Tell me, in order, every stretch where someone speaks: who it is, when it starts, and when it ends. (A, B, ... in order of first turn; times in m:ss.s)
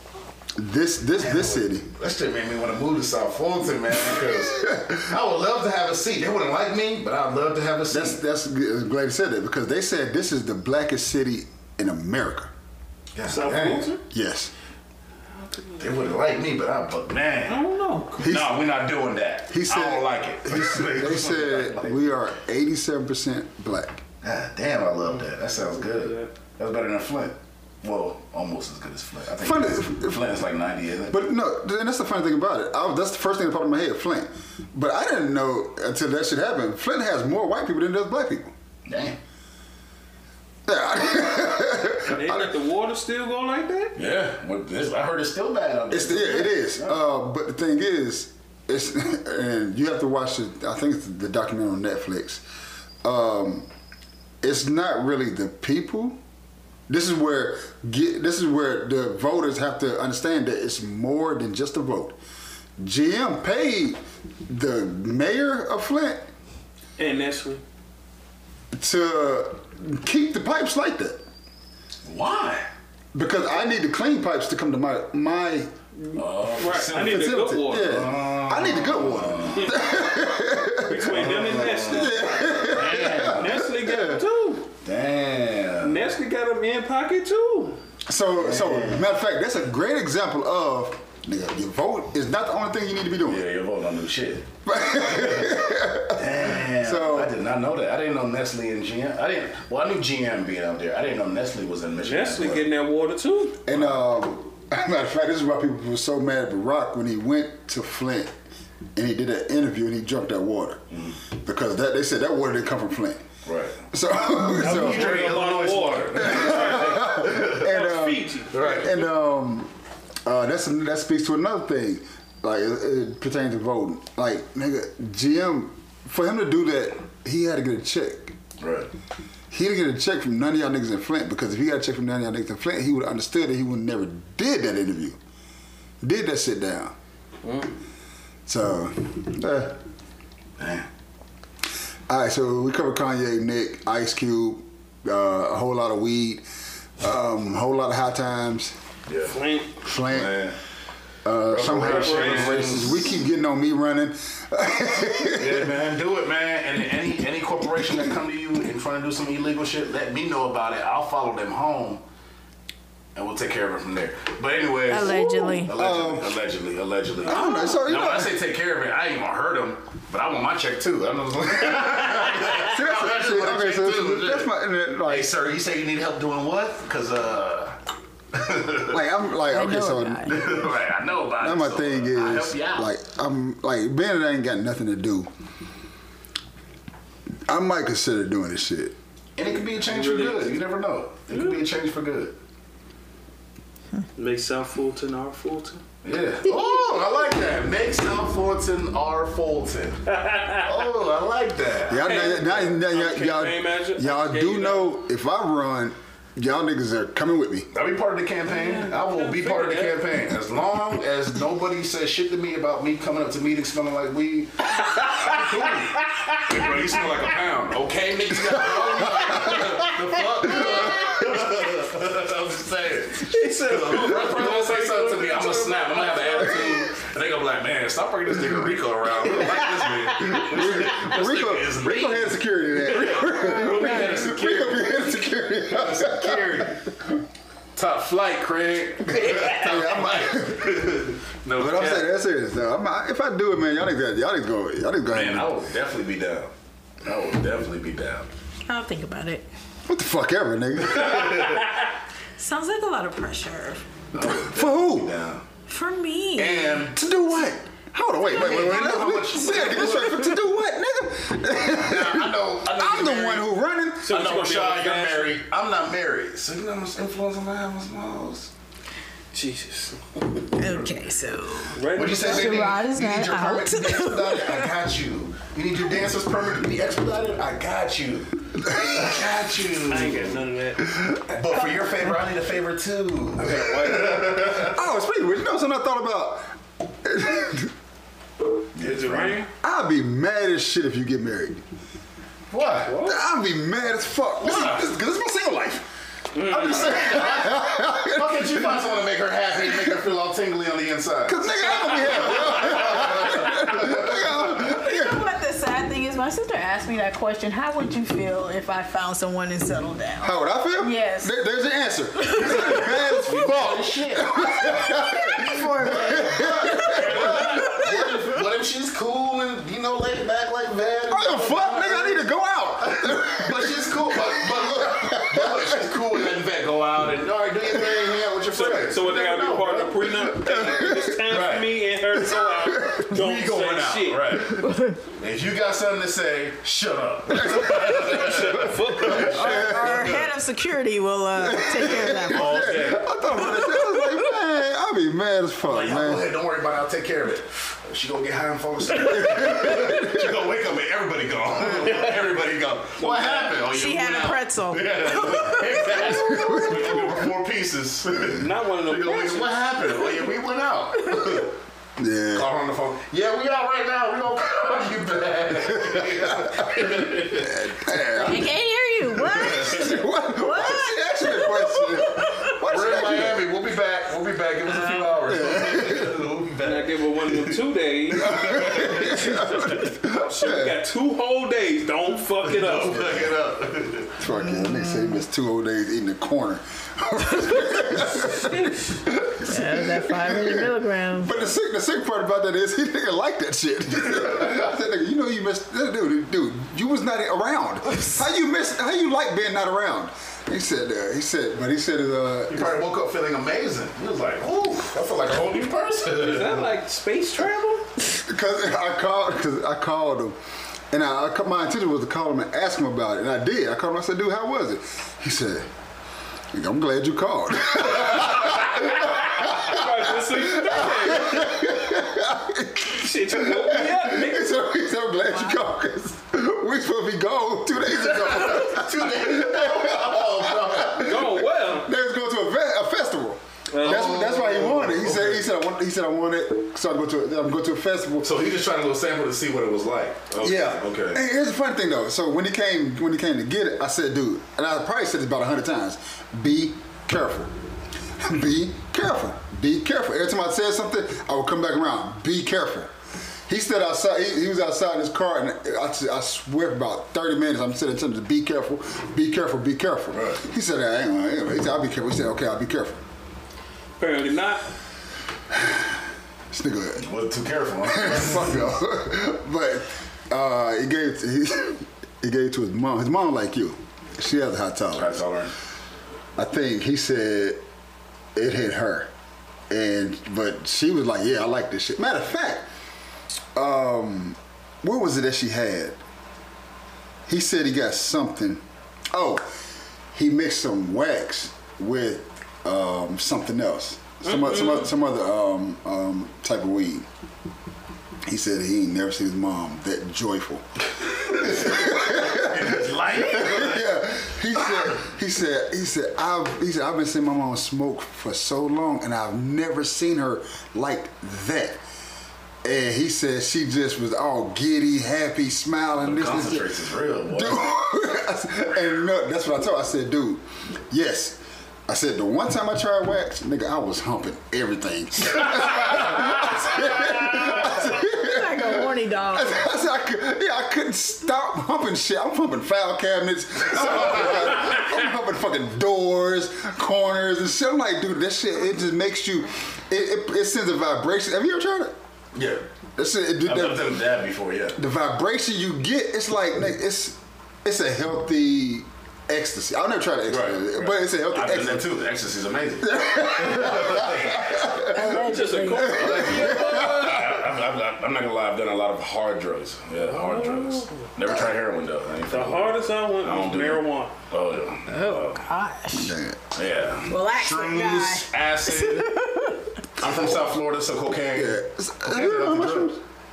0:00.6-0:01.9 A
0:01.2-0:08.2 B
0:04.0-0:05.0 A
0:07.9-0:12.5 A
0:13.1-0:13.9 B
0:13.3-0:14.0 C
0:14.1-0:14.5 A
0:15.3-0:15.9 C
0:15.8-0:17.6 B
0:17.4-0:18.3 C
0:18.2-0:22.1 B
0:18.2-0:18.6 A
0:19.5-0:24.0 A
0:24.2-0:31.2 B
0:25.8-0:26.3 C
0:29.4-0:30.3 A
0:31.1-0:38.5 A
0:38.8-0:39.2 B
0:40.6-0:42.5 A
0:42.0-0:43.9 C
0:43.9-0:47.0 B
0:45.9-0:52.4 A
0:53.0-0:53.7 A
0:54.4-0:56.2 A
0:56.9-1:02.2 A
1:02.8-1:06.3 A
1:07.0-1:07.6 C
1:08.7-1:11.2 A
1:12.0-1:12.7 B
1:13.1-1:24.2 A
1:16.1-1:19.8 B
1:16.6-1:17.9 C
1:19.5-1:19.9 C
1:20.8-1:24.7 C
1:21.0-1:23.6 B
1:24.8-1:26.0 B
1:25.8-1:27.8 C
1:28.1-1:33.4 A
1:28.4-1:29.1 B
1:33.2-1:35.6 B
1:34.6-1:37.4 A
1:36.1-1:42.7 B
1:42.0-1:43.6 C
1:43.6-1:48.3 A
1:49.0-1:53.2 A
1:50.9-1:51.2 B
1:53.4-1:53.8 B
1:53.9-1:55.1 A
1:54.5-1:57.7 B
1:54.6-1:58.7 C
1:56.2-1:59.7 A
1:58.5-1:58.9 B
2:00.2-2:08.4 A
2:08.6-2:08.9 B
2:09.5-2:15.2 A
2:16.0-2:16.9 A
2:17.4-2:17.7 C
2:18.4-2:19.8 A
2:20.6-2:20.9 B
2:22.1-2:26.4 A
2:27.0-2:28.8 A
2:29.1-2:29.4 B
2:29.3-2:29.7 C
2:29.8-2:30.5 A
2:30.1-2:30.6 B
2:31.2-2:35.7 A
2:31.5-2:33.0 B
2:31.7-2:32.9 C
2:35.3-2:42.0 B
2:43.2-2:54.5 B
2:44.9-2:45.7 D
2:45.1-2:46.4 A
2:47.3-2:48.3 A
2:47.3-2:47.8 D
2:52.6-2:55.3 A
2:55.1-2:57.8 B
2:58.3-2:59.0 B
2:58.9-3:00.6 A
2:59.5-3:00.5 D
3:00.3-3:02.9 B
3:01.4-3:05.3 A
3:07.5-3:08.9 A
3:09.4-3:12.4 B
3:09.8-3:10.6 C
3:11.3-3:11.6 C
3:14.2-3:15.8 C
3:16.0-3:20.0 B
3:20.1-3:20.8 C
3:20.6-3:22.2 B
3:21.9-3:27.7 A
3:22.0-3:25.0 C
3:27.7-3:54.9 B
3:28.5-3:30.0 C
3:34.8-3:36.4 C
3:38.5-3:39.5 A
3:39.3-3:39.9 C
3:40.4-3:41.2 A
3:40.5-3:41.1 C
3:43.2-3:47.0 C
3:49.3-3:50.7 C
3:50.2-3:56.9 A
3:53.6-3:54.2 C
3:55.7-3:56.9 B
3:57.7-4:02.1 B
3:59.2-4:01.1 A
3:59.3-3:59.6 C
4:01.6-4:05.5 A
4:05.1-4:06.5 B
4:07.0-4:08.3 B
4:08.6-4:09.5 D
4:09.9-4:11.3 A
4:10.9-4:11.6 B
4:12.4-4:13.9 D
4:14.1-4:15.4 B
4:14.2-4:15.1 A
4:15.7-4:16.9 D
4:16.4-4:17.0 B
4:16.9-4:24.2 A
4:18.2-4:20.3 B
4:21.6-4:23.5 B
4:24.0-4:25.4 C
4:24.1-4:28.5 B
4:29.3-4:30.0 C
4:30.4-4:34.7 D
4:31.7-4:32.7 C
4:31.9-4:40.4 B
4:38.6-4:39.2 A
4:39.9-4:40.9 C
4:41.3-4:44.8 B
4:43.5-4:47.7 A
4:43.6-4:44.1 C
4:48.7-4:49.4 B
4:48.8-4:49.5 C
4:49.6-4:51.6 A
4:52.5-4:52.9 B
4:52.8-4:53.3 C
4:53.0-4:55.9 A
4:54.4-4:54.8 B
4:56.3-4:57.0 C
4:56.5-5:04.5 B
4:56.7-4:58.8 A
4:59.5-5:00.0 A
5:01.3-5:05.3 A
5:04.6-5:11.3 D
5:10.2-5:17.7 A
5:12.2-5:13.2 D
5:12.4-5:22.3 B
5:15.1-5:18.0 D
5:17.0-5:17.8 C
5:21.1-5:26.2 A
5:22.9-5:30.6 B
5:27.7-5:28.1 A
5:28.5-5:34.4 C
5:30.4-5:31.2 A
5:31.3-5:31.7 B
5:32.1-5:33.1 A
5:33.1-5:40.2 B
5:34.4-5:35.0 D
5:37.3-5:40.3 A
5:37.5-5:40.0 C
5:39.2-5:44.3 D
5:41.4-5:46.3 A
5:42.3-5:43.1 B
5:45.6-6:01.5 B
5:49.0-5:50.3 A
5:53.0-5:53.6 C
5:53.6-5:56.6 D
5:56.1-5:57.0 A
5:58.3-5:59.5 C
6:02.0-6:02.5 A
6:02.3-6:07.6 B
6:05.8-6:08.5 A
6:08.2-6:12.5 D
6:09.2-6:13.4 A
6:09.3-6:09.9 B
6:12.7-6:17.6 B
6:14.6-6:15.4 D
6:15.3-6:16.2 A
6:16.6-6:23.2 C
6:18.1-6:19.6 B
6:18.2-6:20.8 A
6:22.4-6:24.2 B
6:24.2-6:42.8 A
6:24.4-6:25.2 D
6:29.4-6:31.4 D
6:42.5-6:46.6 B
6:46.1-6:47.9 C
6:48.0-6:50.4 A
6:50.9-6:55.7 A
6:56.5-7:18.3 A
6:58.5-7:01.7 C
7:02.9-7:04.6 C
7:05.2-7:05.6 D
7:08.1-7:11.1 B
7:11.0-7:11.9 C
7:13.7-7:15.1 C
7:13.8-7:15.4 B
7:18.2-7:21.2 B
7:20.4-7:27.5 A
7:28.2-7:32.9 A
7:33.5-7:43.0 A
7:40.1-7:40.4 B
7:44.0-7:44.7 C
7:45.5-7:45.9 A
7:46.5-7:47.1 A
7:47.0-7:48.6 B
7:47.9-7:55.2 A
7:54.9-7:55.5 B
7:56.4-7:57.6 A
7:58.4-7:59.1 A
7:59.7-8:02.7 A
8:03.6-8:06.0 A
8:07.3-8:09.5 A
8:10.1-8:17.1 A
8:14.2-8:14.9 C
8:18.3-8:31.8 A
8:21.0-8:24.0 B
8:24.6-8:25.0 B
8:32.6-8:36.7 A
8:36.0-8:37.7 B
8:37.3-9:02.0 A
8:47.0-8:49.8 D
8:53.8-8:54.3 B
9:02.4-9:02.6 B
9:03.0-9:04.0 A
9:03.4-9:04.8 B
9:04.7-9:11.9 A
9:10.3-9:14.9 B
9:12.8-9:17.3 A
9:14.8-9:16.3 D
9:15.0-9:17.3 C
9:15.8-9:25.5 B
9:20.0-9:21.0 C
9:22.3-9:24.2 C
9:24.9-9:26.2 D
9:25.9-9:26.4 A
9:26.5-9:29.1 B
9:27.1-9:29.7 D
9:30.0-9:33.0 B
9:31.3-9:33.0 A